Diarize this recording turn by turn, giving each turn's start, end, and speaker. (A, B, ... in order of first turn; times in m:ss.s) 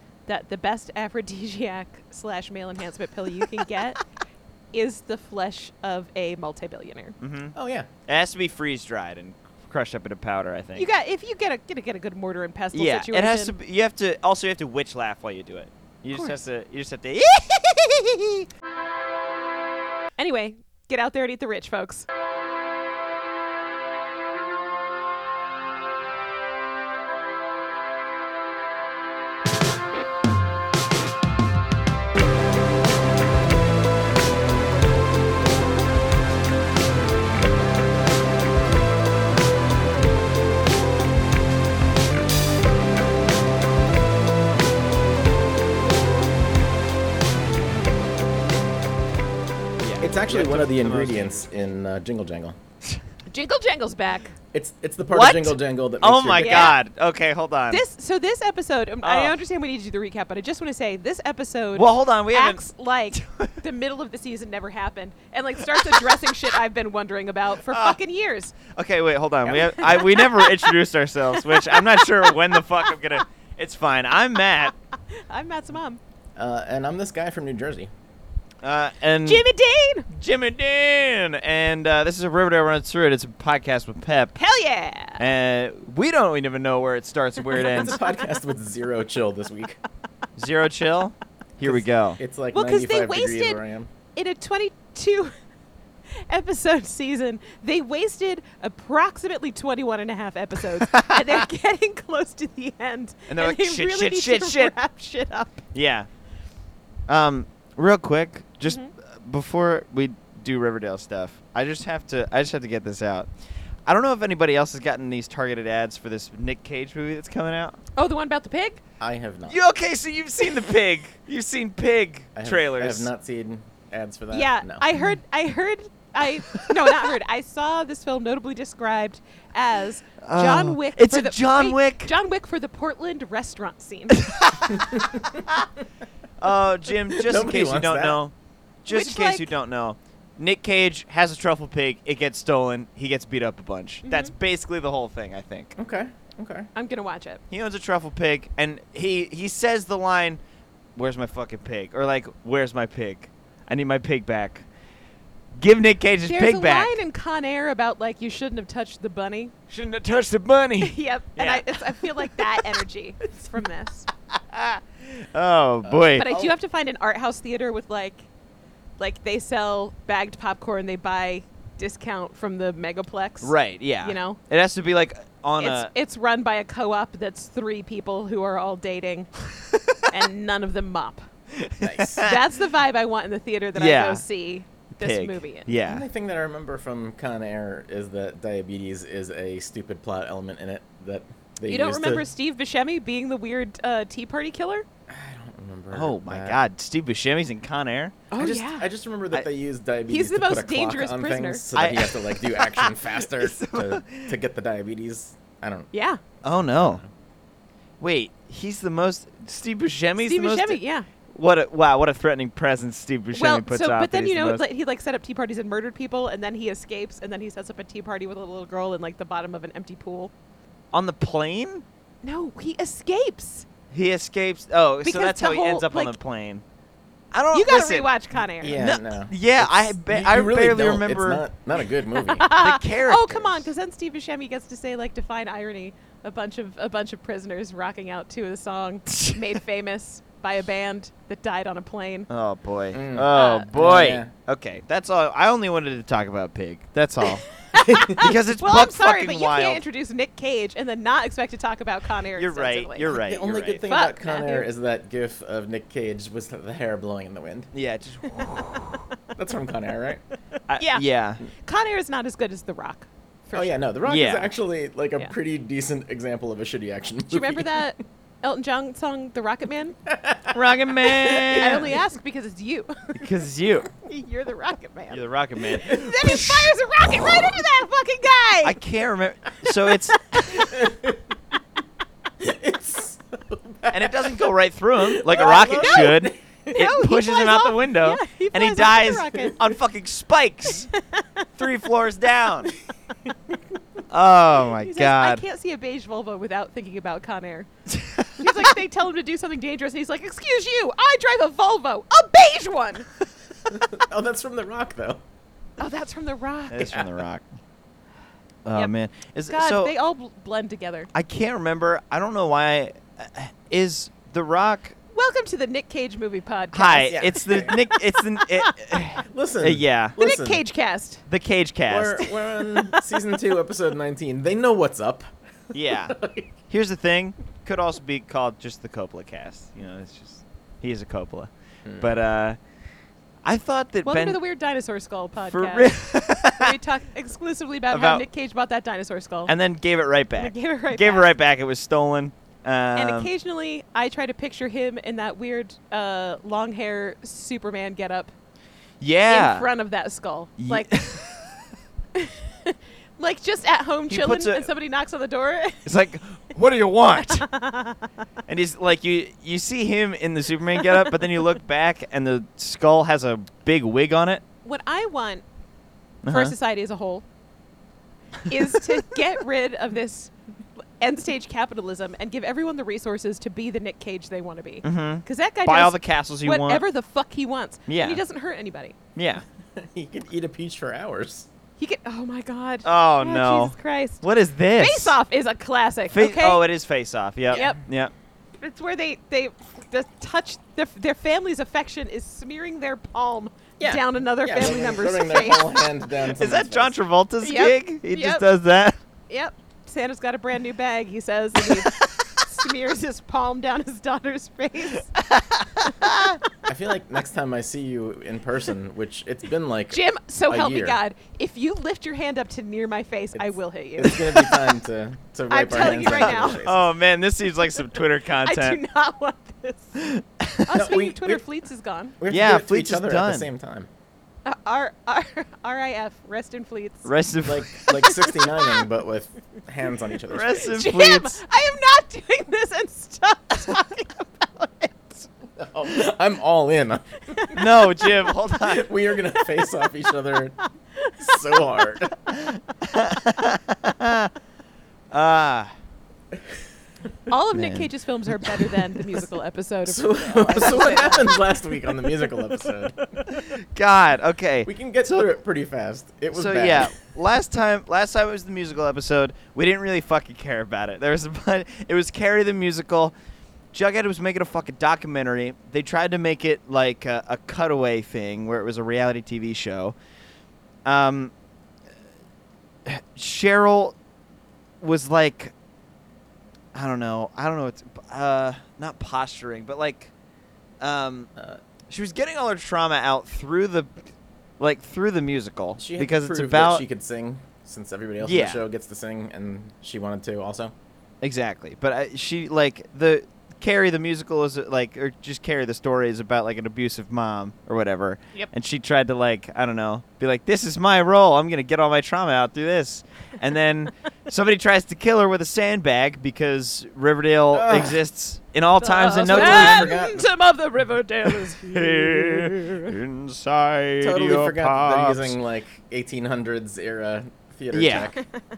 0:00.3-0:04.0 A
0:04.7-0:07.2 A
0:07.2-0:07.5 B
0:07.5-0:07.9 C
0:08.1-0:10.8 B
0:10.8-0:13.5 A
0:12.7-0:18.4 B
0:20.2-0:22.0 A
0:49.8-0:51.5 B
0:50.0-0:52.6 C
0:53.3-0:54.3 A
0:54.5-0:56.7 C
0:55.1-0:57.8 B
0:56.4-0:56.8 A
0:57.7-1:08.6 A
0:59.0-0:59.4 B
1:01.8-1:03.5 B
1:05.6-1:06.1 B
1:07.7-1:08.0 B
1:08.7-1:14.7 B
1:09.4-1:10.8 A
1:11.3-1:13.0 A
1:15.1-1:16.0 A
1:16.4-1:17.9 C
1:18.6-1:19.4 B
1:19.2-1:20.1 A
1:20.1-1:24.4 B
1:24.4-1:25.2 A
1:25.2-1:28.0 B
1:27.5-1:28.1 A
1:27.6-1:29.8 C
1:30.4-1:32.2 B
1:31.6-1:33.9 C
1:32.5-1:33.6 A
1:34.1-1:35.3 A
1:36.1-1:45.7 A
1:40.8-1:41.4 B
1:43.3-1:44.7 B
1:45.7-1:46.1 B
1:47.1-1:53.3 B
1:53.8-1:57.8 B
1:58.0-1:58.8 A
1:59.0-1:59.6 C
1:59.5-2:03.1 B
2:02.3-2:04.9 C
2:04.3-2:14.3 A
2:10.2-2:12.1 B
2:14.2-2:15.7 B
2:14.7-2:15.4 C
2:16.4-2:25.8 B
2:17.1-2:18.2 C
2:18.9-2:19.5 A
2:24.0-2:24.3 A
2:25.8-2:26.7 C
2:26.7-2:27.4 A
2:27.5-2:30.4 B
2:31.0-2:34.6 B
2:35.6-2:37.0 B
2:36.3-2:39.5 A
2:39.7-2:42.6 B
2:40.8-2:44.1 A
2:44.3-2:46.4 B
2:45.8-2:46.5 C
2:46.1-2:48.2 A
2:49.0-2:54.4 A
2:53.4-2:55.9 B
2:55.6-2:59.3 A
2:59.7-3:00.1 B
3:00.1-3:01.2 A
3:01.5-3:02.4 B
3:01.8-3:02.2 C
3:02.2-3:05.7 A
3:03.7-3:04.2 B
3:04.9-3:06.0 B
3:05.8-3:12.2 C
3:11.7-3:14.8 A
3:15.1-3:16.6 C
3:15.9-3:18.2 B
3:18.3-3:18.9 A
3:18.3-3:25.9 C
3:20.1-3:21.6 A
3:21.7-3:24.3 B
3:25.9-3:26.2 A
3:26.4-3:27.0 B
3:26.8-3:27.1 C
3:28.0-3:34.6 B
3:30.2-3:31.1 A
3:33.3-3:40.3 A
3:40.9-3:41.8 B
3:42.2-3:43.6 A
3:43.9-3:46.6 B
3:45.0-3:46.1 A
3:47.3-3:48.1 B
3:47.5-3:48.8 A
3:48.6-3:52.5 C
3:48.7-3:51.4 B
3:52.2-4:02.3 A
3:52.6-3:53.7 B
3:59.1-3:59.4 B
4:02.3-4:07.4 B
4:02.9-4:04.3 C
4:03.3-4:03.7 A
4:07.2-4:13.1 A
4:07.7-4:08.3 C
4:08.1-4:09.8 B
4:12.3-4:13.8 B
4:13.0-4:17.7 C
4:13.9-4:14.7 A
4:17.7-4:19.1 B
4:19.3-4:20.2 C
4:20.7-4:21.4 B
4:20.8-4:23.8 A
4:23.5-4:27.9 C
4:24.0-4:24.5 B
4:27.3-4:30.0 A
4:30.0-4:30.6 C
4:30.5-4:32.0 B
4:31.2-4:32.9 A
4:33.1-4:33.9 B
4:34.0-4:38.8 A
4:35.1-4:36.5 B
4:35.8-4:36.6 C
4:38.6-4:40.8 B
4:40.6-4:41.4 C
4:42.4-4:44.5 C
4:43.9-4:50.9 B
4:45.1-4:46.4 C
4:45.3-4:49.6 A
4:50.7-4:51.4 A
4:51.6-4:52.7 B
4:54.1-4:55.4 B
4:54.8-4:57.7 A
4:57.9-4:58.6 B
4:58.3-5:03.1 A
5:03.7-5:05.2 C
5:05.8-5:06.9 A
5:06.7-5:07.5 B
5:06.8-5:07.1 C
5:08.6-5:09.9 B
5:09.5-5:11.1 A
5:11.1-5:15.0 B
5:15.1-5:18.7 A
5:16.7-5:20.2 B
5:17.0-5:17.7 C
5:19.2-5:20.6 C
5:20.2-5:21.2 A
5:21.2-5:22.2 B
5:21.9-5:25.3 C
5:22.2-5:23.0 A
5:25.7-5:26.2 B
5:25.9-5:26.5 C
5:26.7-5:32.6 B
5:31.8-5:32.1 C
5:33.4-5:34.4 B
5:34.0-5:39.5 A
5:35.5-5:36.8 B
5:37.9-5:38.2 B
5:39.5-5:43.3 B
5:40.4-5:41.3 A
5:42.9-5:48.3 A
5:49.0-5:49.7 B
5:49.3-5:51.2 A
5:50.6-5:51.6 B
5:52.1-5:55.9 A
5:54.1-5:54.7 B
5:55.8-5:57.4 B
5:57.2-5:58.1 A
5:58.5-6:04.4 B
6:00.8-6:01.2 A
6:04.6-6:05.4 A
6:06.2-6:06.5 B
6:06.3-6:07.2 A
6:08.5-6:10.3 A
6:11.0-6:19.0 A
6:14.8-6:16.8 B
6:17.9-6:18.2 B
6:19.1-6:19.4 B
6:19.8-6:21.5 C
6:21.8-6:24.2 A
6:22.8-6:25.2 B
6:24.8-6:26.6 A
6:26.1-6:28.1 B
6:27.5-6:27.8 C
6:27.5-6:27.8 A
6:28.6-6:35.7 A
6:33.8-6:37.0 C
6:36.3-6:39.0 B
6:37.4-6:38.4 A
6:39.3-6:45.2 A
6:41.6-6:42.4 B
6:45.2-6:46.4 B
6:45.8-6:46.2 A
6:46.6-6:51.0 C
6:49.9-6:54.6 A
6:54.0-6:56.9 C
6:55.5-6:56.6 A
6:55.8-6:58.8 B
6:58.4-7:00.0 A
7:00.0-7:00.8 B
7:00.7-7:02.2 A
7:00.7-7:01.4 C
7:02.2-7:03.9 C
7:02.3-7:03.5 B
7:04.4-7:07.1 A
7:07.0-7:07.9 B
7:07.4-7:10.8 C
7:07.9-7:08.9 A
7:10.3-7:11.4 B
7:10.6-7:15.3 A
7:15.6-7:17.4 C
7:17.3-7:18.4 A
7:17.5-7:18.8 B
7:18.6-7:20.6 C
7:19.4-7:19.9 A
7:20.9-7:21.7 A
7:21.2-7:22.2 C
7:22.3-7:24.3 B
7:25.1-7:25.7 B
7:27.3-7:31.4 A
7:27.5-7:28.7 B
7:29.8-7:33.0 C
7:32.1-7:33.3 A
7:33.3-7:35.3 B
7:34.6-7:36.9 C
7:36.3-7:43.1 B
7:43.7-7:49.9 B
7:50.8-7:51.3 B
7:52.8-7:54.0 B
7:54.8-7:55.5 B
7:56.7-8:00.1 B
8:00.8-8:01.3 B
8:01.4-8:01.6 C
8:01.9-8:04.0 B
8:04.6-8:06.8 B
8:05.8-8:10.7 C
8:08.2-8:08.6 B
8:11.2-8:29.9 B
8:27.5-8:28.0 C
8:28.8-8:32.9 A
8:29.2-8:30.3 C
8:31.3-8:35.4 B
8:34.0-8:38.2 C
8:37.7-8:38.1 B